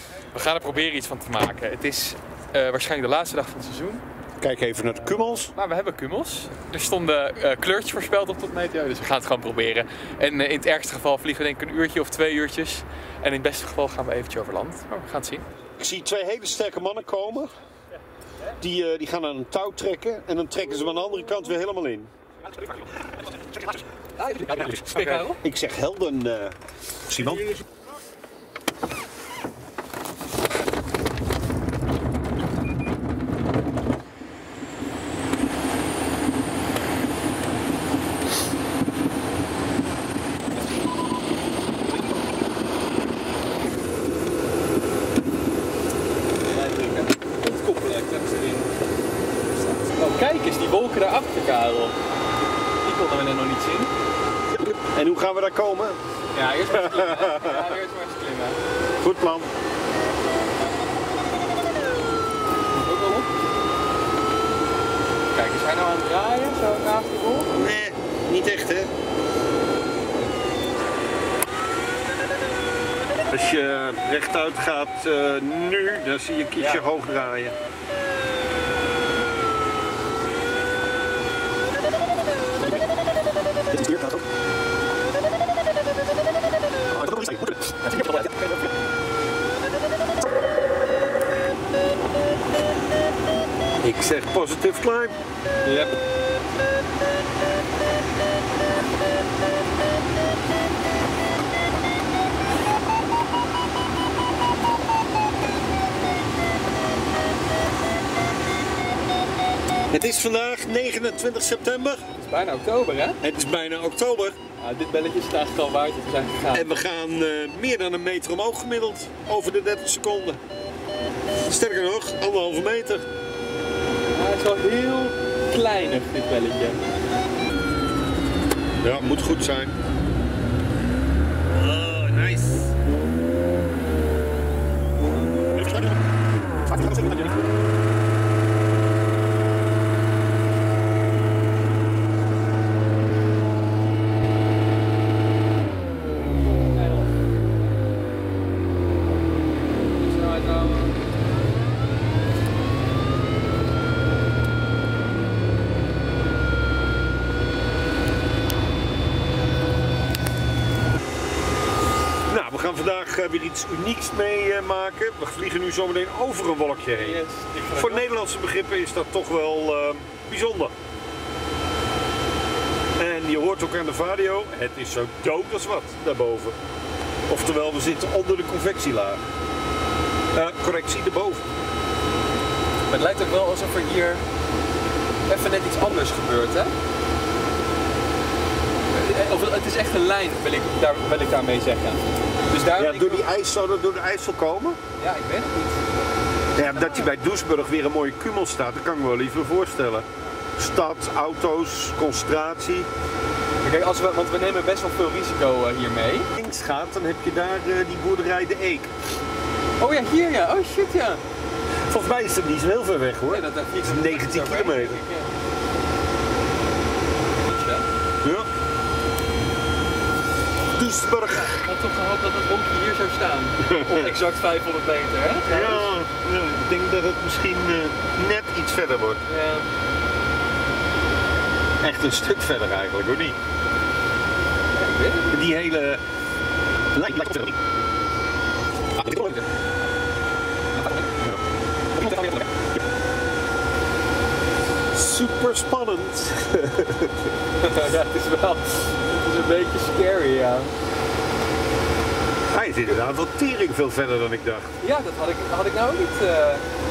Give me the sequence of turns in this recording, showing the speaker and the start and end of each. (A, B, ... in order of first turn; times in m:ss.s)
0:00.3-0:04.0 A
0:04.4-0:05.5 B
0:05.5-0:15.4 A
0:15.8-0:17.5 B
0:18.6-0:22.1 B
0:24.2-0:25.4 A
0:24.9-0:27.6 B
0:46.5-0:48.7 A
0:49.8-0:52.0 A
0:52.8-0:53.9 A
0:54.5-0:56.0 B
0:56.3-0:58.6 A
0:56.7-0:57.8 B
0:59.0-0:59.5 B
1:02.7-1:03.3 A
1:05.3-1:07.5 A
1:07.5-1:08.9 B
1:13.3-1:17.6 B
1:16.6-1:16.9 A
1:23.7-1:24.2 B
1:26.9-1:28.6 B
1:33.8-1:35.2 B
1:35.6-1:35.9 A
1:49.9-1:52.0 B
1:52.2-1:53.2 A
1:53.2-1:54.4 B
1:54.6-1:56.7 A
1:56.5-2:00.4 B
2:01.4-2:03.0 B
2:04.1-2:06.8 A
2:08.8-2:09.8 B
2:11.5-2:12.8 B
2:16.7-2:17.4 B
2:26.8-2:27.1 A
2:30.0-2:31.0 A
2:42.3-2:47.2 B
2:47.0-2:48.1 A
2:47.8-2:50.7 B
2:53.0-2:56.6 B
2:57.3-2:59.2 B
3:00.3-3:01.4 B
3:02.9-3:04.2 A
3:05.3-3:06.7 A
3:08.9-3:13.3 A
3:12.8-3:14.8 B
3:15.0-3:15.8 A
3:16.6-3:20.0 B
3:16.7-3:17.1 A
3:20.6-3:22.9 B
3:23.6-3:26.3 A
3:26.4-3:28.9 B
3:29.8-3:31.2 A
3:31.9-3:35.0 B
3:33.3-3:35.3 A
3:37.4-3:37.9 A
3:38.2-3:38.5 B
3:40.7-3:41.7 B
3:41.4-3:45.9 A
3:43.6-3:44.2 B
3:45.5-3:49.2 B
3:49.3-3:49.7 A
3:51.8-3:53.4 B
3:54.8-3:55.4 A
3:55.3-3:56.0 B
3:57.0-3:57.6 B
3:59.0-3:59.4 B
4:02.0-4:02.5 B
4:04.9-4:07.3 B
4:07.6-4:10.7 A
4:12.5-4:14.7 B
4:14.8-4:16.6 A